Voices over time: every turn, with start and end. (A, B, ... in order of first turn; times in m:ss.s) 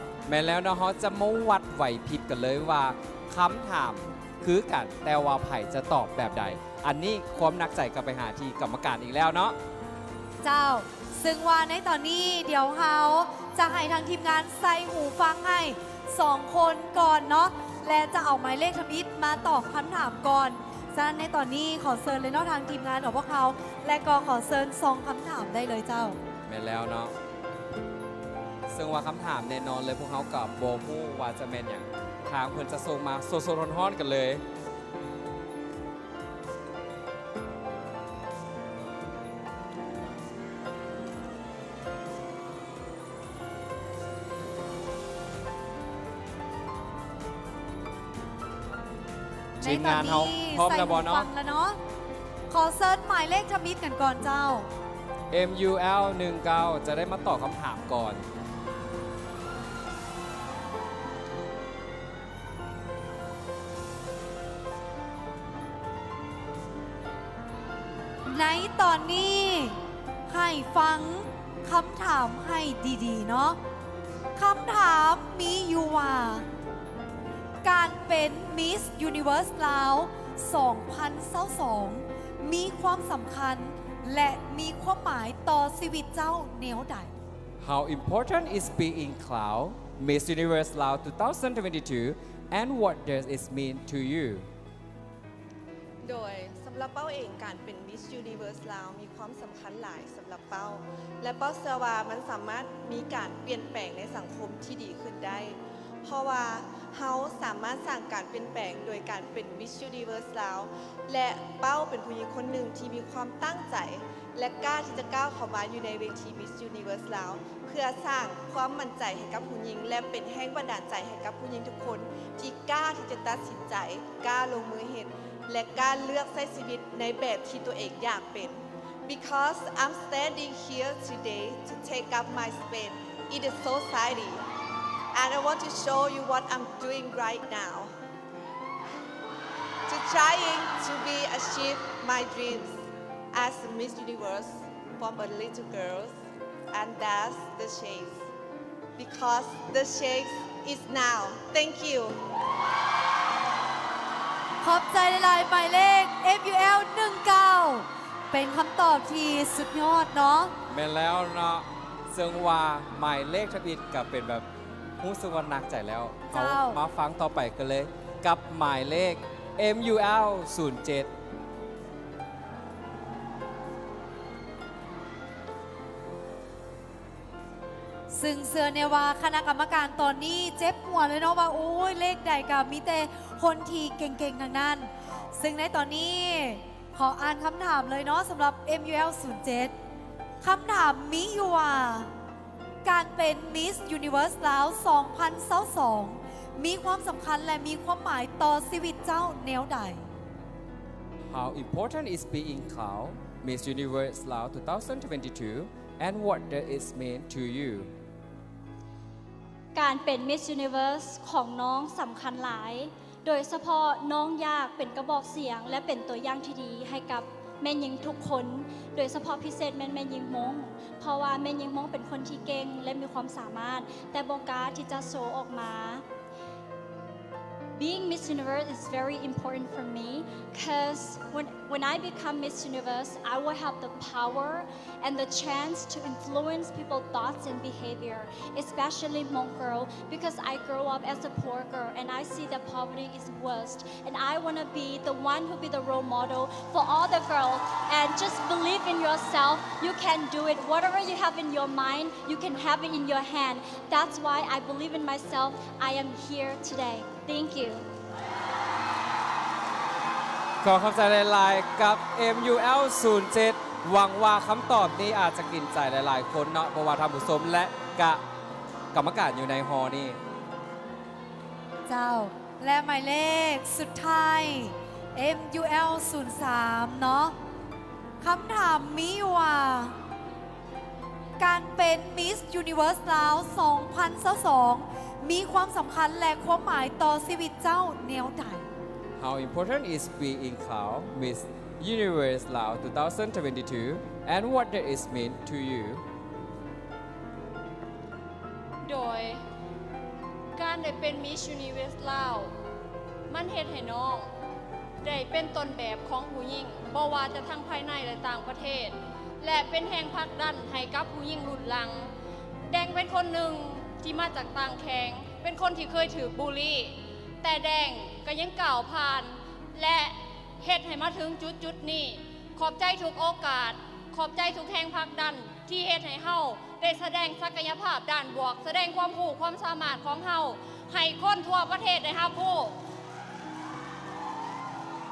0:00.3-0:09.6 A
0:10.4-0:26.2 B
0:26.5-0:27.1 A
0:28.7-0:34.4 A
0:49.6-0:51.8 B
0:49.6-0:51.3 A
0:52.5-0:54.7 B
0:55.3-0:58.2 A
1:08.3-1:13.6 B
1:14.4-1:16.4 B
1:17.6-1:27.1 B
1:27.6-1:34.5 A
1:36.0-2:14.4 C
2:15.1-2:17.9 C
2:19.9-2:22.8 C
2:23.3-2:26.2 C
2:26.7-2:28.3 C
2:29.0-2:32.2 C
2:34.6-2:40.5 B
2:40.7-2:44.5 A
2:45.0-2:51.1 A
2:46.3-2:46.8 B
2:58.1-3:09.7 B
3:10.4-3:12.1 B
3:12.8-3:20.0 B
3:21.3-3:27.9 A
3:29.8-3:46.0 D
3:47.8-4:17.9 D
4:20.6-4:28.2 A
4:28.9-4:30.2 A
4:31.9-4:37.4 B
4:38.2-4:39.9 B
4:41.4-4:48.7 B
4:49.2-4:56.0 A
4:58.8-4:59.4 E
5:00.6-5:02.5 E
5:03.3-5:04.3 E
5:05.0-5:12.1 E
5:12.7-5:32.8 E